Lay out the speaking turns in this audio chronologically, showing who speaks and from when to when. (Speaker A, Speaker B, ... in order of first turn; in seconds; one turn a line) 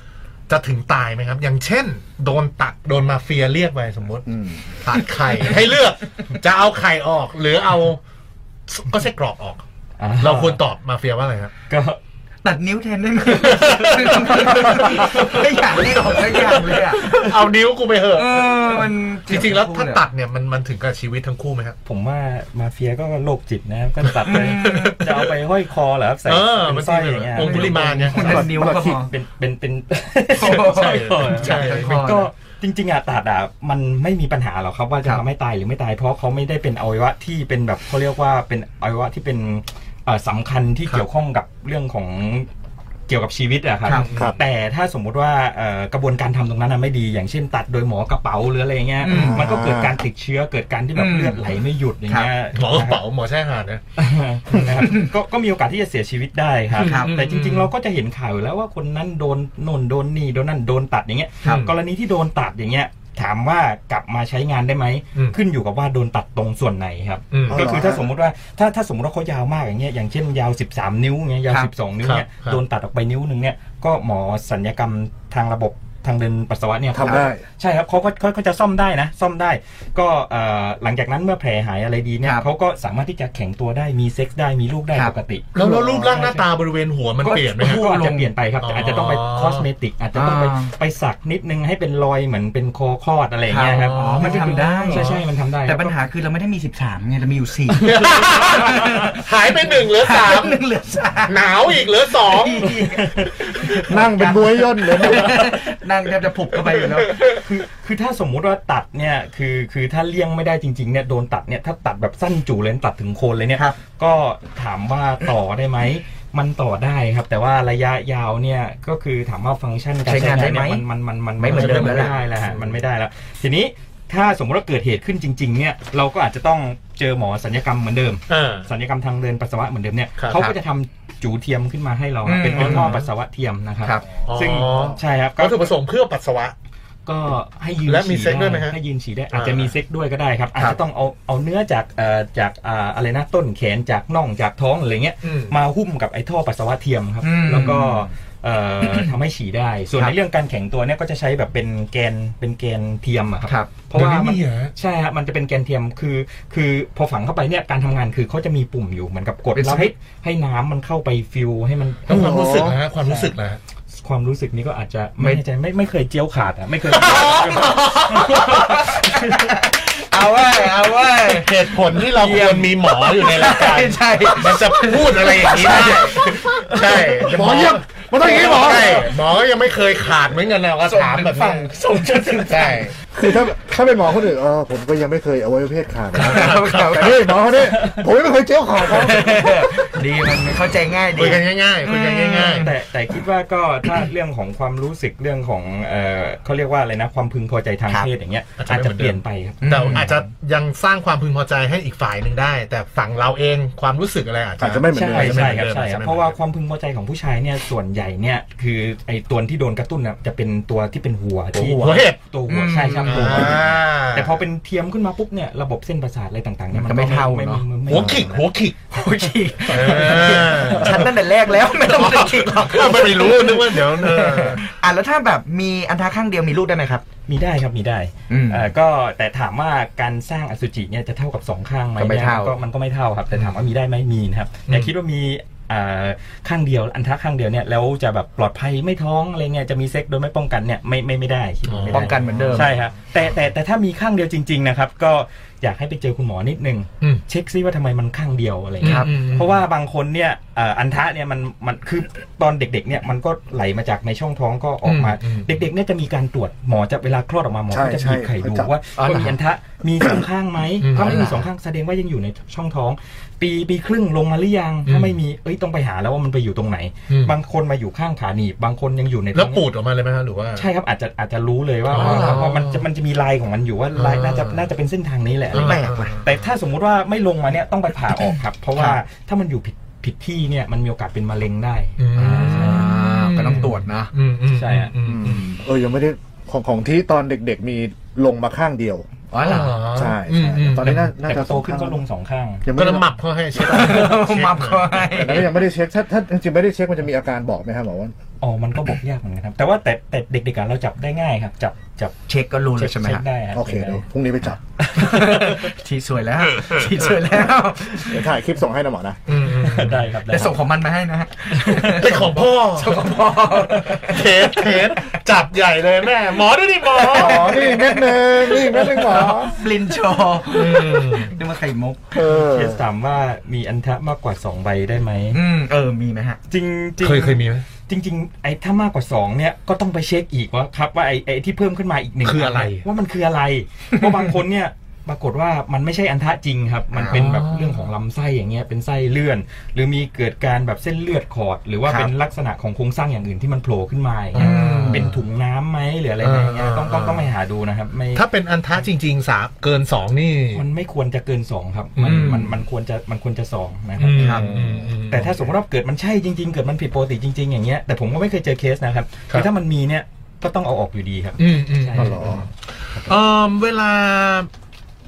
Speaker A: 0.5-4.3
Speaker B: 4.3-4.6
Speaker A: 4.8-8.0
Speaker A: 8.7-9.6
Speaker C: 10.0-10.6
Speaker A: 10.2-11.5
Speaker C: 11.7-12.0
Speaker D: 12.4-17.4
Speaker A: 13.3-21.8
Speaker C: 14.8-15.3
Speaker D: 18.1-20.0
Speaker C: 21.8-42.5
Speaker D: 24.2-25.1
Speaker A: 24.2-25.1
Speaker A: 26.2-28.5
Speaker D: 27.4-29.1
Speaker B: 28.2-29.0
Speaker D: 30.3-32.3
Speaker A: 30.4-32.0
Speaker C: 43.1-53.0
Speaker D: 43.8-44.1
Speaker A: 43.9-44.4
Speaker B: 44.1-44.4
Speaker D: 49.0-49.5
Speaker B: 49.0-50.0
Speaker D: 50.9-51.4
Speaker A: 52.5-53.8
Speaker C: 54.0-85.5
Speaker D: 54.6-55.1
Speaker A: 56.7-57.7
Speaker D: 56.8-57.1
Speaker A: 61.4-61.7
Speaker A: 67.3-67.7
Speaker B: 67.5-68.0
Speaker A: 72.0-72.6
Speaker B: 76.9-77.4
Speaker A: 85.5-87.8
Speaker B: 85.5-86.2
Speaker C: 86.1-86.4
Speaker D: 87.2-88.3
Speaker C: 87.6-95.9
Speaker A: 88.6-89.7
Speaker D: 90.1-90.7
Speaker D: 93.5-101.5
Speaker A: 93.8-95.0
Speaker A: 97.8-100.6
Speaker A: 101.2-102.8
Speaker D: 102.2-107.3
Speaker C: 102.6-103.8
Speaker B: 103.9-105.5
Speaker A: 106.7-107.2
Speaker C: 107.3-135.7
Speaker D: 120.0-120.8
Speaker D: 121.4-122.5
Speaker A: 121.5-122.6
Speaker A: 128.3-128.7
Speaker D: 132.2-133.0
Speaker A: 132.5-133.0
Speaker A: 134.2-136.5
Speaker C: 137.1-162.5
Speaker A: 137.8-138.8
Speaker A: 139.3-139.7
Speaker A: 145.2-145.5
Speaker D: 147.2-148.1
Speaker D: 148.8-149.1
Speaker D: 153.4-153.7
Speaker A: 153.9-154.7
Speaker D: 159.6-159.8
Speaker A: 162.1-163.6
Speaker B: 162.1-162.8
Speaker C: 163.0-163.3
Speaker C: 164.0-169.4
Speaker A: 166.9-168.5
Speaker D: 167.0-177.7
Speaker A: 171.2-182.9
Speaker B: 177.2-179.1
Speaker D: 178.5-179.1
Speaker D: 180.8-182.9
Speaker B: 183.1-189.6
Speaker A: 186.1-187.4
Speaker D: 186.2-187.2
Speaker D: 188.8-192.7
Speaker A: 191.1-192.7
Speaker C: 192.6-200.2
Speaker A: 198.6-206.3
Speaker D: 199.6-200.2
Speaker B: 204.6-205.6
Speaker C: 204.9-218.5
Speaker A: 211.5-212.2
Speaker D: 212.5-213.6
Speaker A: 213.0-214.3
Speaker D: 216.7-217.6
Speaker A: 217.9-218.8
Speaker D: 218.9-227.0
Speaker A: 219.7-224.7
Speaker C: 227.3-269.6
Speaker D: 228.3-228.7
Speaker D: 232.0-232.5
Speaker A: 241.7-242.7
Speaker D: 241.9-242.7
Speaker A: 248.8-249.6
Speaker D: 248.8-249.1
Speaker A: 254.8-255.6
Speaker B: 257.7-258.7
Speaker D: 259.0-259.4
Speaker A: 260.8-261.3
Speaker D: 260.9-261.4
Speaker A: 264.9-265.2
Speaker A: 267.1-267.3
Speaker A: 269.3-270.7
Speaker C: 270.6-283.0
Speaker A: 271.9-272.8
Speaker D: 271.9-272.4
Speaker A: 273.9-274.6
Speaker A: 275.5-276.4
Speaker D: 275.5-276.2
Speaker A: 282.0-285.4
Speaker D: 282.1-284.1
Speaker C: 284.5-284.9
Speaker B: 285.0-289.0
Speaker D: 289.3-289.8
Speaker A: 289.4-291.1
Speaker B: 289.9-292.0
Speaker C: 291.2-292.6
Speaker B: 292.6-293.1
Speaker A: 292.8-295.3
Speaker D: 293.6-295.5
Speaker B: 295.1-298.1
Speaker C: 298.4-302.1
Speaker D: 302.3-303.2
Speaker C: 302.7-304.0
Speaker B: 303.5-304.6
Speaker C: 304.8-305.7
Speaker D: 304.9-308.3
Speaker A: 306.5-307.1
Speaker B: 308.0-309.2
Speaker A: 309.3-310.1
Speaker C: 309.4-310.6
Speaker D: 310.3-315.1
Speaker C: 311.5-312.1
Speaker A: 311.8-313.1
Speaker A: 313.9-317.7
Speaker D: 316.9-322.2
Speaker B: 317.0-319.6
Speaker A: 320.5-321.4
Speaker B: 322.1-322.8
Speaker C: 322.4-325.4
Speaker D: 325.3-326.4
Speaker C: 326.5-348.2
Speaker A: 327.0-327.6
Speaker A: 332.2-332.8
Speaker D: 336.9-337.2
Speaker A: 337.1-337.8
Speaker D: 341.9-342.1
Speaker A: 344.3-345.2
Speaker D: 344.3-345.1
Speaker A: 346.2-347.3
Speaker A: 348.1-350.6
Speaker C: 350.5-363.2
Speaker A: 352.0-352.5
Speaker A: 354.0-355.5
Speaker D: 354.1-354.5
Speaker B: 354.5-354.9
Speaker A: 361.4-362.4
Speaker B: 361.9-362.4
Speaker A: 363.1-364.5